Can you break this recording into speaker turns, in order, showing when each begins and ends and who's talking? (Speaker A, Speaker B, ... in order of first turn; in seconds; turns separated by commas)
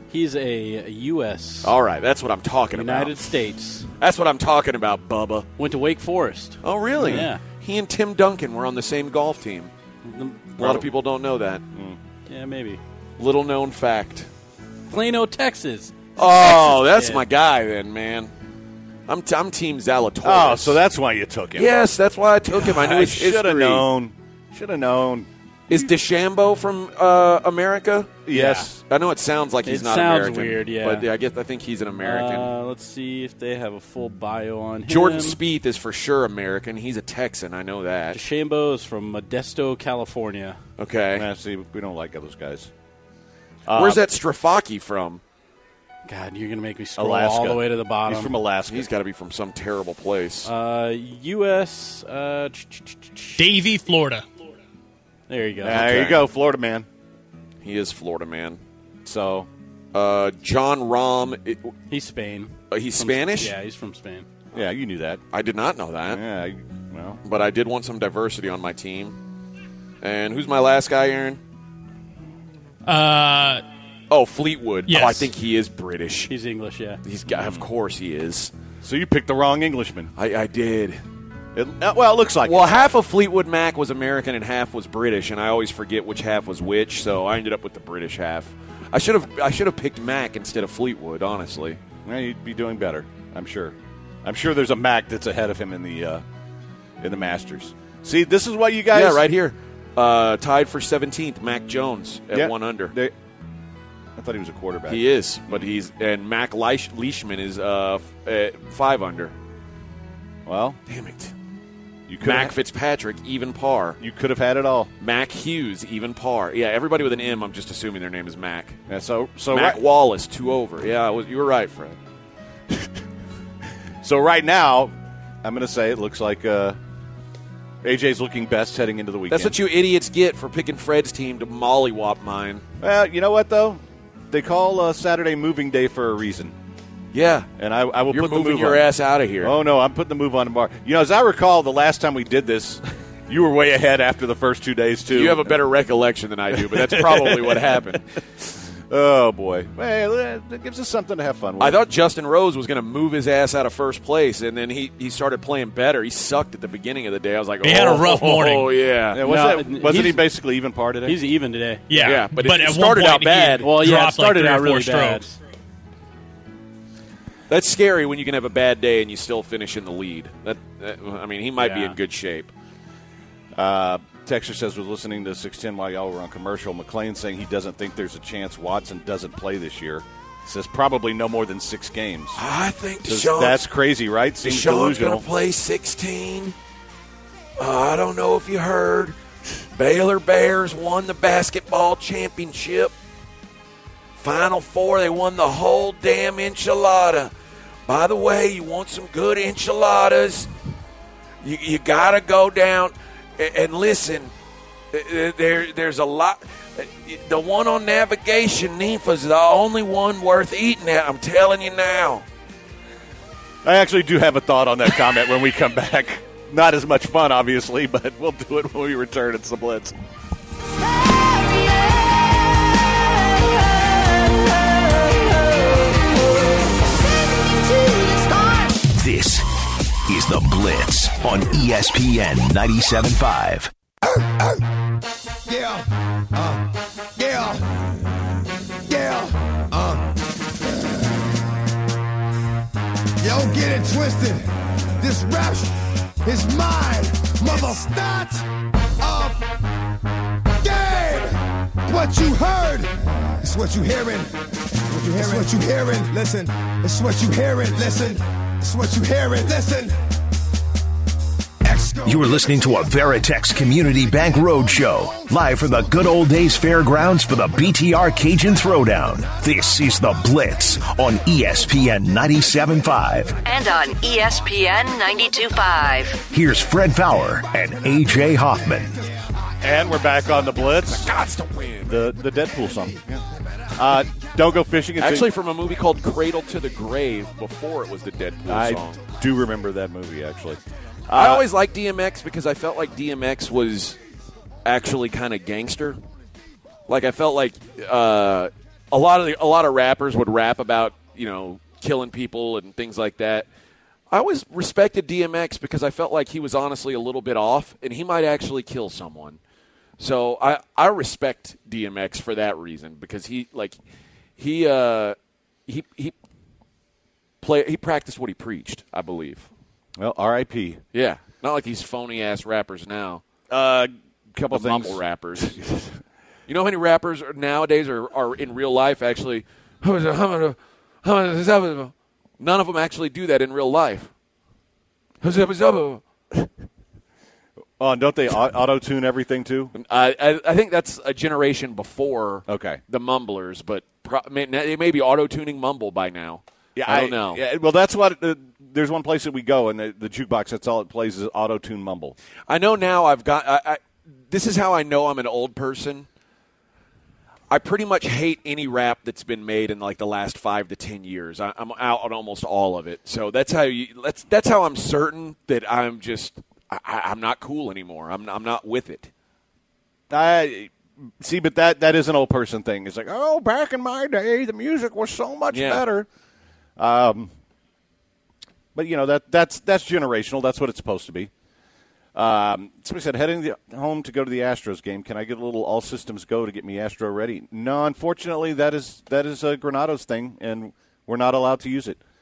Speaker A: 0.1-1.8, Speaker B: 1.6-3.3, Speaker A: 2.7-3.9, Speaker B: 4.0-5.5, Speaker A: 5.6-7.4, Speaker B: 6.6-9.7, Speaker C: 7.0-7.3, Speaker A: 10.0-10.6, Speaker B: 10.6-11.6, Speaker C: 10.6-10.9, Speaker A: 12.3-12.8, Speaker B: 13.2-14.3, Speaker A: 14.9-17.2, Speaker B: 16.2-18.3, Speaker C: 16.2-16.9, Speaker B: 19.1-20.8, Speaker C: 20.2-21.7, Speaker B: 21.5-23.9, Speaker C: 22.5-25.9, Speaker B: 25.7-32.5, Speaker C: 28.3-28.8, Speaker A: 28.3-28.7, Speaker A: 29.6-31.1, Speaker A: 32.0-35.4, Speaker B: 34.9-38.2, Speaker A: 38.1-40.6, Speaker B: 40.8-41.3, Speaker C: 41.1-42.7, Speaker C: 43.7-44.0, Speaker B: 43.7-45.2, Speaker A: 46.0-48.4, Speaker C: 47.0-48.9, Speaker B: 48.7-50.5, Speaker A: 50.4-53.4, Speaker D: 53.4-54.2, Speaker A: 55.3-56.1, Speaker C: 55.6-56.9, Speaker B: 55.7-56.2, Speaker B: 57.6-58.6, Speaker C: 59.0-59.5, Speaker B: 59.9-61.8, Speaker A: 61.9-64.2, Speaker B: 62.7-63.5, Speaker C: 64.5-65.2, Speaker B: 65.3-66.2, Speaker C: 66.1-67.2, Speaker B: 67.2-69.2, Speaker B: 70.0-71.4, Speaker D: 72.8-73.6, Speaker B: 74.1-76.3, Speaker D: 74.9-75.3, Speaker A: 76.3-77.0, Speaker B: 77.0-78.5, Speaker C: 77.3-77.6, Speaker C: 78.8-80.1, Speaker B: 80.2-81.0, Speaker C: 81.5-82.7, Speaker B: 82.4-91.8, Speaker C: 92.0-96.2, Speaker C: 97.0-99.2, Speaker B: 98.9-102.9, Speaker C: 102.3-103.1, Speaker C: 104.2-105.7, Speaker B: 104.9-109.3, Speaker C: 110.5-110.8, Speaker B: 110.9-111.3, Speaker C: 112.1-112.5, Speaker B: 112.2-114.0, Speaker C: 114.0-114.9, Speaker B: 115.0-118.8, Speaker C: 118.9-119.8, Speaker B: 119.5-122.0, Speaker C: 124.0-126.8, Speaker C: 127.8-129.6, Speaker B: 129.3-132.6, Speaker C: 132.8-136.5, Speaker B: 137.1-137.5, Speaker C: 137.6-138.9, Speaker B: 138.1-139.6, Speaker C: 139.4-145.6, Speaker B: 145.1-148.1, Speaker C: 146.5-148.0, Speaker C: 148.9-151.8, Speaker B: 151.6-159.3, Speaker D: 157.6-158.8, Speaker C: 159.1-161.2, Speaker A: 159.2-160.3, Speaker A: 161.0-162.2, Speaker D: 161.9-165.2, Speaker B: 162.0-163.7, Speaker A: 163.6-165.3, Speaker B: 167.5-172.5, Speaker A: 171.6-172.0, Speaker C: 173.5-182.4, Speaker B: 182.4-183.6, Speaker C: 183.1-185.2, Speaker B: 184.4-186.5, Speaker B: 187.6-189.2, Speaker B: 189.7-192.9, Speaker B: 194.2-197.3, Speaker B: 197.8-200.5, Speaker B: 201.4-204.3, Speaker B: 204.9-212.2, Speaker C: 213.6-219.9, Speaker E: 228.9-229.5, Speaker E: 230.1-233.7, Speaker F: 234.0-234.6, Speaker F: 235.4-236.6, Speaker F: 237.2-237.6, Speaker F: 238.9-240.2, Speaker F: 243.2-244.5, Speaker F: 245.0-248.4, Speaker F: 249.0-249.4, Speaker F: 250.6-254.3, Speaker F: 254.8-259.9, Speaker F: 261.6-262.3, Speaker E: 262.0-273.4, Speaker G: 273.4-276.2, Speaker E: 276.3-279.0, Speaker C: 279.6-281.1, Speaker B: 280.9-282.1, Speaker C: 281.9-283.2, Speaker C: 283.7-285.3, Speaker B: 285.0-289.0, Speaker C: 288.5-291.4, Speaker B: 291.1-294.0, Speaker B: 294.6-296.0, Speaker B: 296.9-303.4, Speaker B: 304.1-309.4, Speaker B: 310.0-313.8, Speaker B: 314.4-315.1, Speaker B: 315.7-316.1, Speaker B: 317.4-319.5, Speaker C: 320.0-320.8, Speaker B: 320.9-323.2, Speaker C: 323.5-325.9, Speaker B: 324.5-325.6, Speaker B: 326.5-334.1, Speaker B: 335.2-336.0, Speaker C: 337.8-339.8, Speaker B: 339.8-347.4, Speaker C: 342.5-342.8, Speaker C: 346.8-352.1, Speaker B: 352.5-356.1, Speaker B: 357.5-369.1, Speaker C: 370.1-376.1, Speaker B: 375.5-375.8, Speaker C: 376.8-377.3, Speaker C: 378.8-381.3, Speaker C: 382.1-392.0